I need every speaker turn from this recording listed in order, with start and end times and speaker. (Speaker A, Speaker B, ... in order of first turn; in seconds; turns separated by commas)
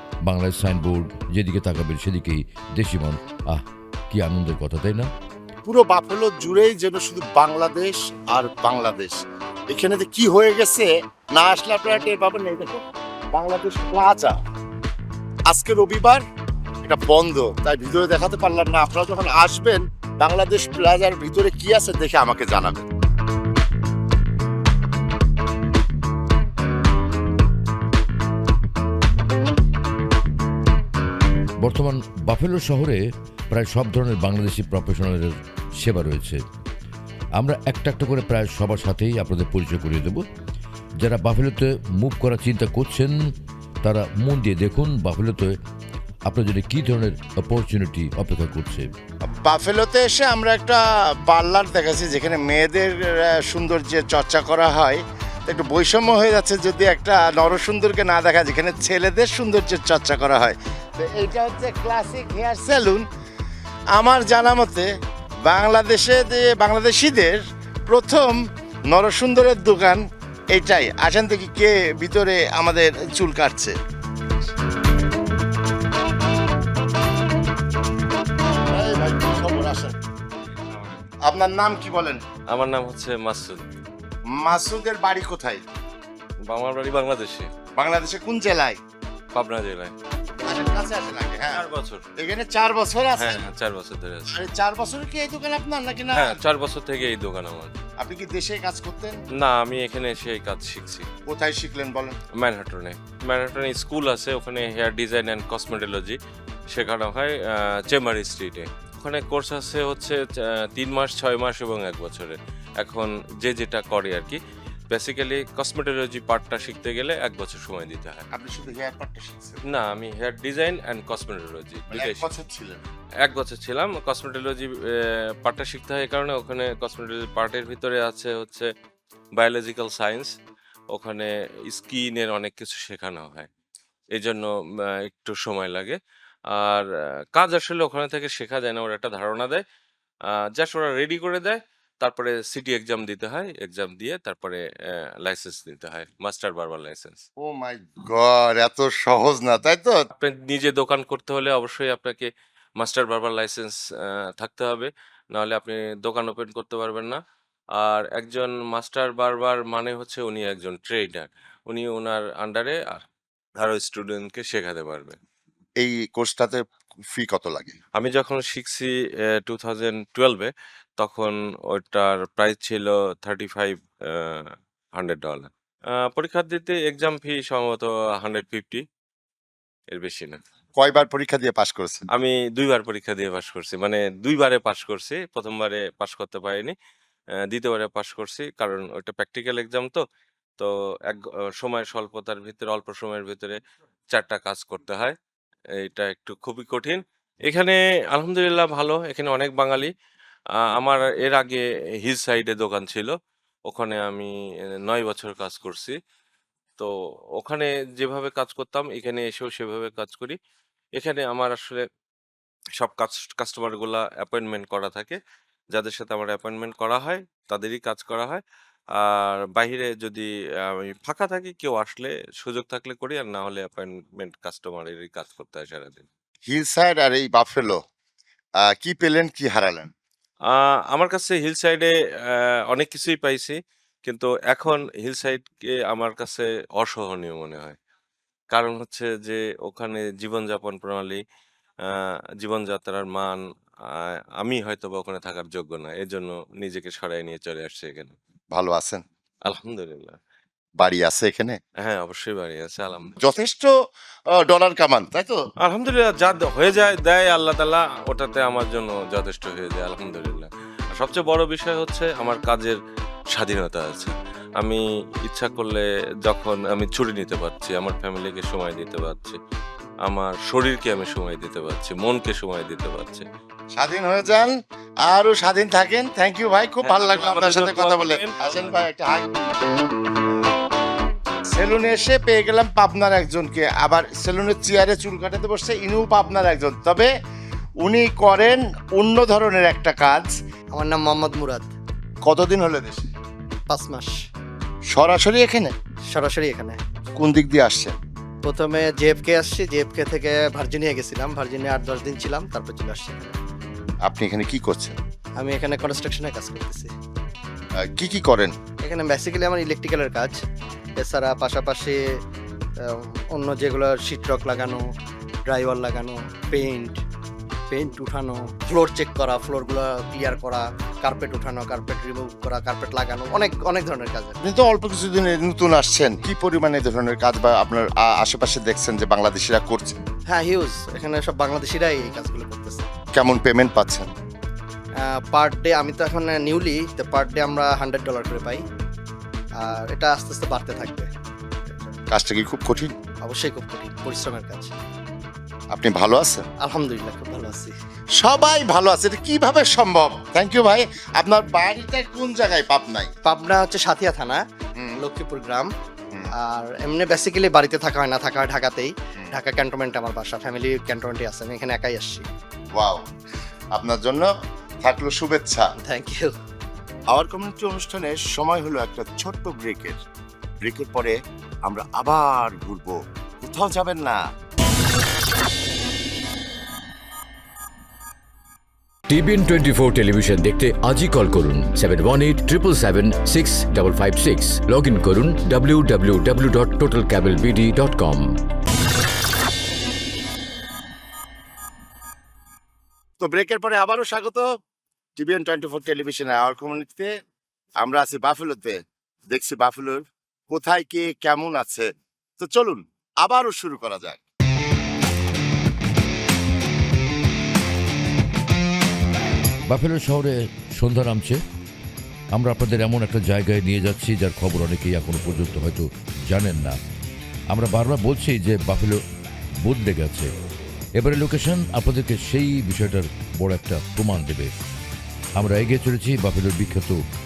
Speaker A: 0.2-5.1, Speaker B: 5.7-9.2, Speaker B: 9.7-12.8, Speaker B: 13.3-14.4, Speaker B: 15.5-16.2, Speaker B: 16.8-22.9, Speaker A: 31.6-36.4, Speaker A: 37.4-40.2, Speaker A: 41.0-43.2, Speaker A: 43.8-45.5, Speaker A: 46.3-48.9, Speaker B: 49.2-63.0, Speaker B: 64.0-64.9, Speaker B: 65.4-73.8, Speaker B: 78.7-80.0, Speaker B: 81.2-82.2, Speaker C: 82.5-83.7, Speaker B: 84.3-85.6, Speaker C: 86.5-87.5, Speaker B: 87.8-88.8, Speaker C: 89.3-89.9, Speaker B: 90.5-91.7, Speaker C: 91.5-92.0, Speaker B: 92.2-93.5, Speaker C: 93.2-94.3, Speaker B: 94.3-96.4, Speaker C: 96.2-97.8, Speaker B: 98.0-99.2, Speaker C: 99.4-101.1, Speaker B: 101.3-102.2, Speaker C: 102.4-106.2, Speaker C: 106.7-114.4, Speaker C: 114.9-118.2, Speaker B: 118.3-119.6, Speaker C: 119.7-122.3, Speaker B: 121.9-122.8, Speaker C: 123.2-128.7, Speaker C: 129.4-130.3, Speaker C: 130.9-133.5, Speaker C: 134.1-136.0, Speaker C: 136.5-139.6, Speaker C: 140.6-144.6, Speaker C: 145.2-147.2, Speaker B: 147.4-150.0, Speaker C: 150.2-153.8, Speaker C: 154.4-157.2, Speaker C: 157.8-163.1, Speaker C: 163.6-165.2, Speaker B: 165.8-167.8, Speaker C: 168.0-175.5, Speaker C: 176.1-178.8, Speaker C: 179.9-180.4, Speaker B: 180.8-182.1, Speaker C: 182.1-186.8, Speaker C: 187.5-190.0, Speaker C: 190.6-193.6, Speaker C: 194.1-195.2, Speaker C: 195.8-199.9, Speaker C: 200.6-203.1, Speaker C: 203.7-204.3, Speaker C: 204.8-206.0, Speaker C: 206.8-210.4, Speaker C: 211.0-211.8, Speaker C: 212.8-215.2, Speaker C: 215.7-218.4, Speaker C: 218.9-226.1, Speaker B: 226.5-227.8, Speaker B: 228.6-229.9, Speaker C: 230.5-237.8, Speaker C: 238.5-241.2, Speaker C: 241.9-248.1, Speaker B: 248.5-249.0, Speaker C: 249.5-250.2, Speaker B: 250.8-251.6, Speaker C: 251.8-253.2, Speaker B: 253.2-253.7, Speaker B: 254.3-255.4, Speaker C: 255.7-262.8, Speaker C: 263.4-269.4, Speaker C: 270.1-273.2, Speaker B: 273.8-274.5, Speaker B: 275.1-279.5, Speaker C: 276.8-278.8, Speaker B: 281.5-287.1, Speaker B: 287.8-290.3, Speaker D: 290.7-291.7, Speaker B: 292.2-293.1, Speaker D: 293.7-294.2, Speaker B: 294.9-295.7, Speaker D: 296.1-296.8, Speaker B: 297.2-298.0, Speaker D: 298.4-303.4, Speaker B: 304.0-305.0, Speaker D: 305.4-306.9, Speaker B: 307.8-308.5, Speaker D: 308.8-310.4, Speaker D: 311.0-312.0, Speaker D: 312.8-314.9, Speaker D: 315.5-317.0, Speaker D: 317.7-324.4, Speaker B: 324.4-330.0, Speaker D: 330.3-332.9, Speaker B: 333.1-334.1, Speaker D: 335.0-338.6, Speaker D: 339.6-341.1, Speaker D: 341.7-341.9, Speaker B: 342.1-342.9, Speaker D: 343.2-344.7, Speaker B: 345.7-346.5, Speaker D: 346.6-347.7, Speaker B: 348.2-353.1, Speaker D: 353.2-354.4, Speaker D: 355.0-355.7, Speaker D: 356.3-362.3, Speaker B: 362.7-363.1, Speaker B: 363.7-364.3, Speaker B: 364.8-365.7, Speaker D: 365.8-366.3, Speaker B: 367.1-370.0, Speaker B: 370.6-374.2, Speaker E: 379.1-388.3, Speaker B: 393.2-394.5, Speaker B: 395.2-397.1, Speaker B: 397.8-404.2, Speaker A: 409.7-411.4, Speaker A: 412.3-416.8, Speaker A: 417.5-419.0, Speaker A: 419.6-420.3, Speaker A: 421.0-424.5, Speaker A: 425.4-427.0